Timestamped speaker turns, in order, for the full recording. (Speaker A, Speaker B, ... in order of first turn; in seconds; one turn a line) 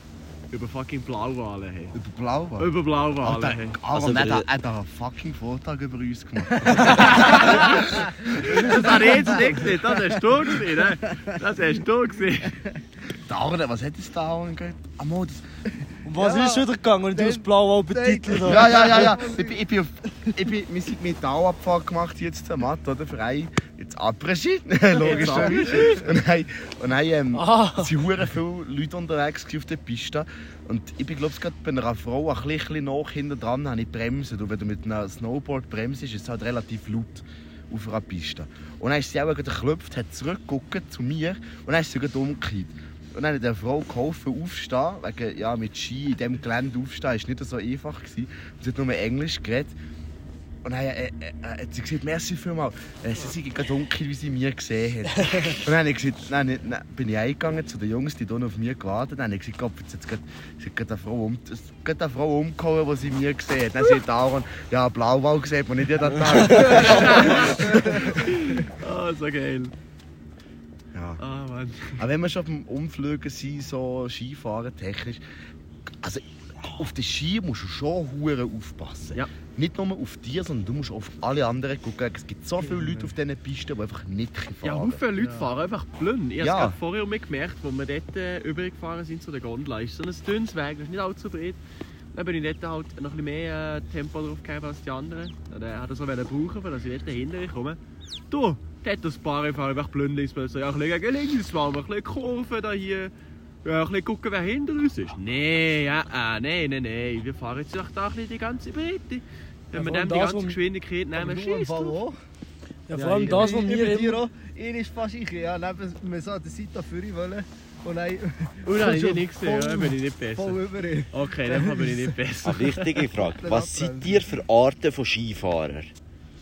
Speaker A: 0.5-2.0
Speaker B: 1.9-7.8
Speaker A: 2.6-3.8
Speaker C: 3.9-4.5
Speaker A: 6.7-12.6
Speaker D: 8.3-9.8
Speaker B: 13.2-15.4
Speaker E: 16.0-18.7
Speaker D: 16.2-19.6
Speaker B: 18.4-49.7
Speaker A: 25.0-26.0
Speaker D: 25.0-25.8
Speaker E: 27.3-27.9
Speaker B: 50.6-68.2
Speaker A: 66.5-69.7
Speaker B: 70.9-71.2
Speaker A: 71.2-72.0
Speaker B: 72.0-75.2
Speaker B: 76.0-85.0
Speaker A: 84.6-91.6
Speaker B: 86.4-86.8
Speaker A: 92.1-97.8
Speaker A: 98.3-103.1
Speaker A: 103.6-112.0
Speaker E: 109.7-110.6
Speaker D: 111.1-112.2
Speaker E: 112.9-114.2
Speaker A: 112.9-113.6
Speaker D: 113.1-122.1
Speaker A: 118.7-123.1
Speaker C: 122.4-125.9
Speaker D: 123.1-124.3